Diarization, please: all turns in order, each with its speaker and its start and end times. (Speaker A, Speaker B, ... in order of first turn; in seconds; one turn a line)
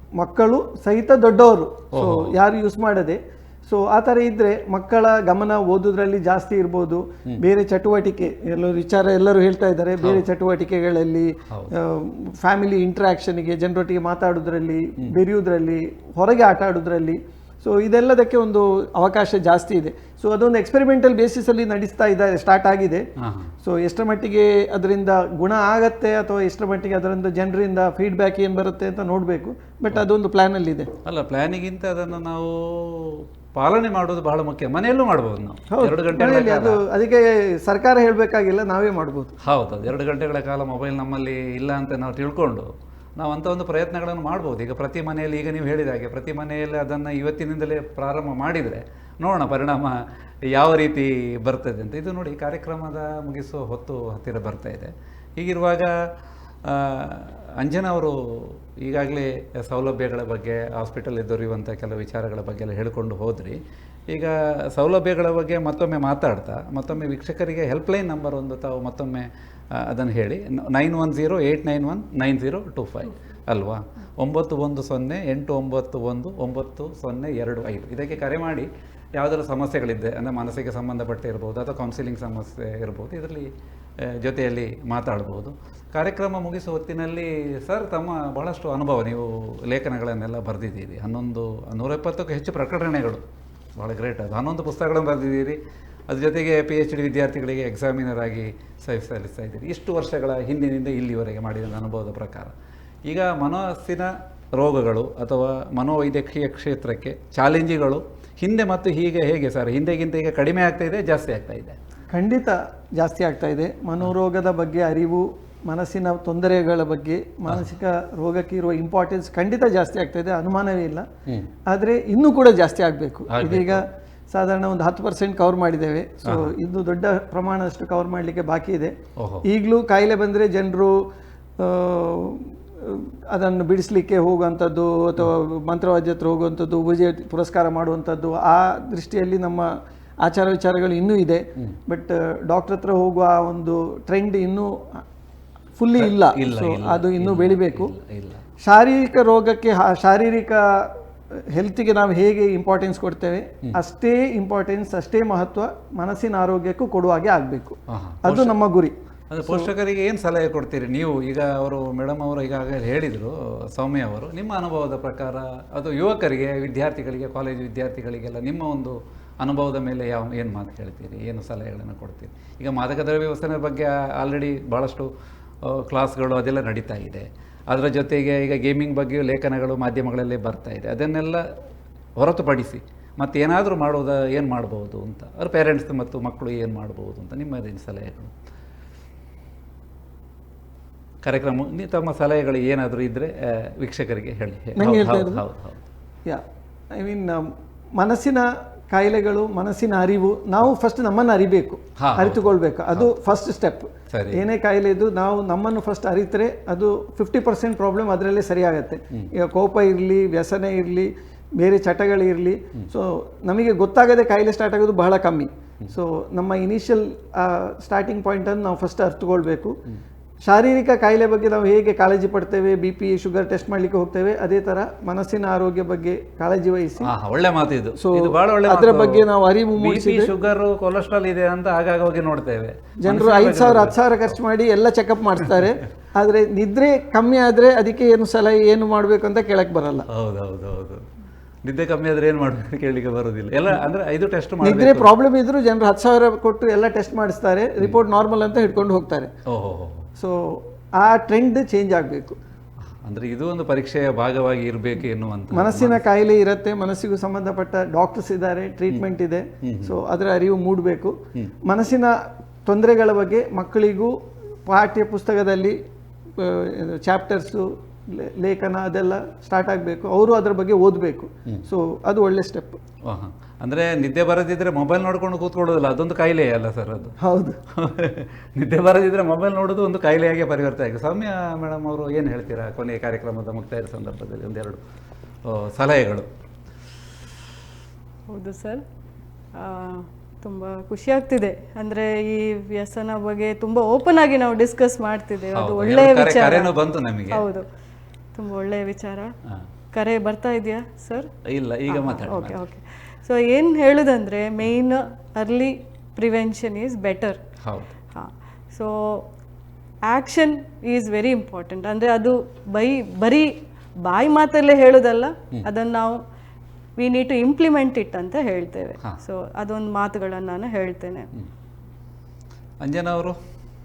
Speaker A: 0.2-23.1
Speaker B: 1.9-2.4
Speaker B: 10.0-10.2
Speaker B: 23.2-23.5
Speaker A: 23.6-30.9
Speaker B: 31.1-36.8
Speaker A: 35.7-39.3
Speaker B: 39.5-50.0
Speaker B: 50.5-55.9
Speaker B: 56.6-63.6
Speaker B: 64.1-69.3
Speaker B: 69.8-83.5
Speaker B: 84.1-93.2
Speaker B: 93.8-95.6
Speaker B: 96.1-102.5
Speaker B: 103.1-111.8
Speaker A: 112.1-121.0
Speaker A: 121.7-128.9
Speaker B: 123.3-123.8
Speaker B: 126.2-126.5
Speaker B: 129.2-129.4
Speaker A: 129.4-131.0
Speaker A: 131.6-145.0
Speaker A: 145.8-147.9
Speaker B: 146.0-148.4
Speaker A: 148.6-150.9
Speaker A: 151.5-159.7
Speaker B: 157.9-158.6
Speaker B: 159.3-175.1
Speaker B: 175.7-181.4
Speaker B: 182.2-188.3
Speaker B: 191.2-195.8
Speaker A: 194.8-195.4
Speaker A: 196.9-219.7
Speaker B: 202.0-203.1
Speaker B: 204.1-204.4
Speaker A: 220.4-227.1
Speaker B: 227.0-229.2
Speaker A: 228.0-230.3
Speaker B: 229.8-234.3
Speaker A: 233.0-240.1
Speaker B: 240.1-241.0
Speaker B: 241.7-245.1
Speaker A: 244.6-249.3
Speaker B: 249.5-250.1
Speaker A: 250.2-252.4
Speaker B: 253.0-256.0
Speaker A: 255.5-262.1
Speaker B: 259.6-260.0
Speaker A: 262.7-264.1
Speaker A: 264.7-265.8
Speaker A: 266.4-272.8
Speaker B: 273.1-277.2
Speaker A: 277.2-277.6
Speaker B: 277.8-284.8
Speaker B: 285.5-286.3
Speaker C: 288.3-288.8
Speaker C: 289.6-296.7
Speaker B: 295.6-297.5
Speaker C: 297.3-297.7
Speaker C: 298.4-299.3
Speaker C: 299.9-301.3
Speaker B: 301.5-302.6
Speaker C: 301.9-307.4
Speaker B: 307.6-307.9
Speaker C: 308.1-309.2
Speaker C: 310.1-313.5
Speaker C: 314.1-316.2
Speaker C: 317.0-321.3
Speaker B: 322.8-323.4